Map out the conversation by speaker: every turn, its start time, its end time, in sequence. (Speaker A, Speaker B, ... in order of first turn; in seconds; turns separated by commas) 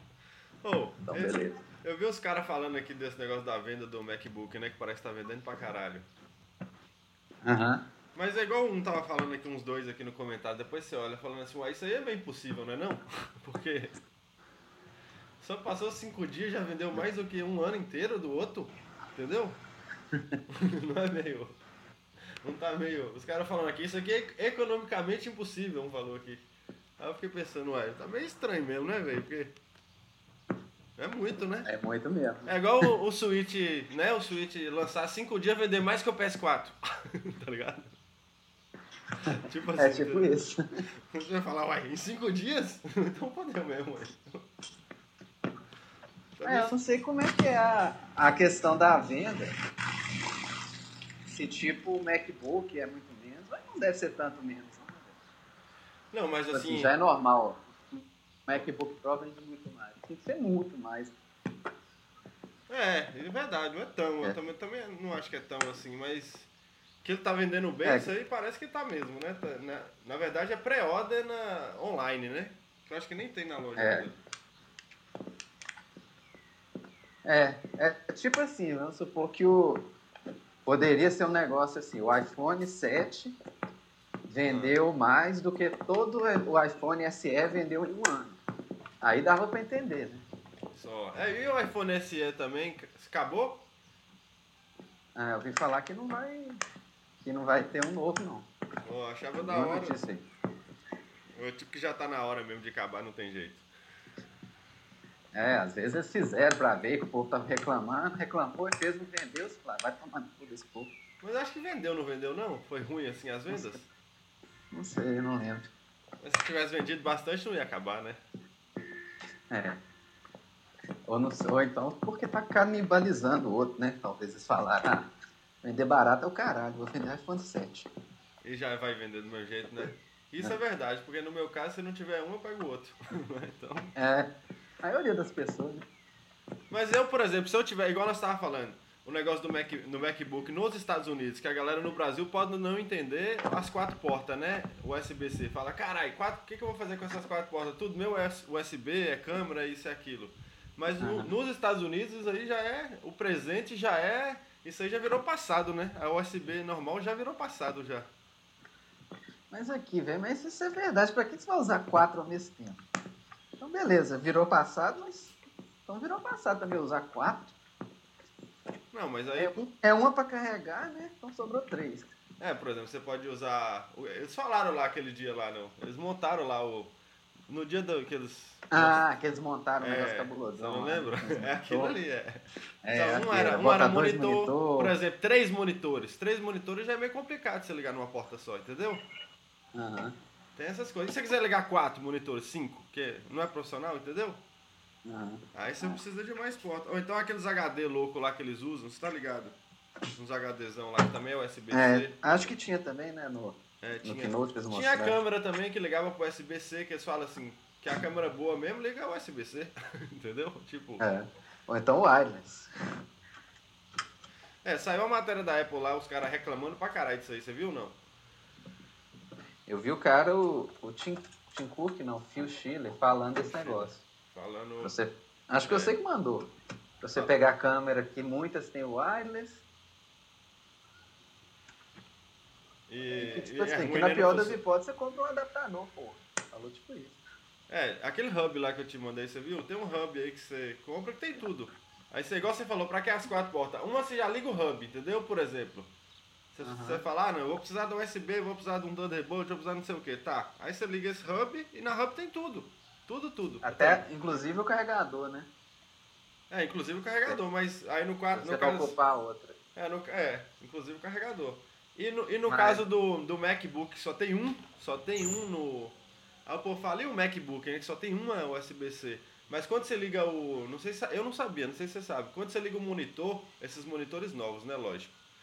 Speaker A: 0.6-6.1, Speaker B: 1.0-1.6, Speaker B: 7.4-7.8, Speaker A: 8.1-13.9, Speaker A: 15.4-19.6, Speaker A: 20.5-21.6, Speaker A: 22.4-26.5, Speaker A: 27.0-29.6, Speaker A: 31.0-31.7, Speaker B: 31.6-32.5, Speaker A: 32.5-37.9, Speaker A: 39.3-40.4, Speaker B: 39.8-40.5, Speaker A: 41.1-44.5, Speaker A: 46.4-46.7, Speaker B: 46.4-49.5, Speaker B: 51.3-55.1, Speaker A: 56.1-56.9, Speaker B: 56.5-61.1, Speaker A: 62.7-66.5, Speaker A: 67.0-74.2, Speaker B: 67.8-68.1, Speaker B: 73.8-74.1, Speaker B: 77.2-79.8, Speaker B: 80.6-83.3, Speaker B: 84.3-88.4, Speaker A: 84.4-84.8, Speaker B: 89.0-90.2, Speaker A: 90.7-93.6, Speaker B: 95.2-96.6, Speaker B: 97.2-98.5, Speaker A: 98.8-100.0, Speaker B: 99.4-100.2, Speaker A: 101.3-103.7, Speaker B: 105.3-110.9, Speaker A: 111.2-113.9, Speaker B: 113.5-113.8, Speaker B: 114.7-115.7, Speaker A: 116.2-118.2, Speaker B: 119.5-119.8, Speaker B: 121.1-125.1, Speaker B: 125.6-127.9, Speaker A: 128.4-133.9, Speaker B: 134.0-134.3, Speaker B: 134.8-135.8, Speaker A: 136.7-158.1, Speaker B: 151.0-151.3, Speaker B: 159.5-162.8, Speaker B: 163.6-165.3, Speaker B: 165.9-167.5, Speaker A: 168.9-169.7, Speaker B: 169.3-172.1, Speaker A: 172.4-176.9, Speaker A: 177.5-179.0, Speaker B: 178.7-181.9, Speaker A: 179.8-189.0, Speaker B: 182.8-184.9, Speaker B: 189.8-190.2, Speaker A: 190.6-194.4, Speaker B: 195.1-196.0, Speaker A: 195.5-202.5, Speaker B: 201.7-205.2, Speaker A: 203.8-211.1, Speaker B: 211.0-212.7, Speaker A: 214.6-218.0, Speaker B: 219.7-224.0, Speaker A: 223.5-224.9, Speaker B: 224.8-226.5, Speaker A: 225.6-225.9, Speaker B: 227.0-229.6, Speaker A: 232.9-234.6, Speaker B: 233.1-237.2, Speaker A: 237.7-245.9, Speaker A: 246.5-254.0, Speaker B: 246.6-247.0, Speaker B: 253.6-255.5, Speaker A: 256.5-258.9, Speaker B: 258.3-259.6, Speaker A: 259.8-275.1, Speaker B: 262.5-262.8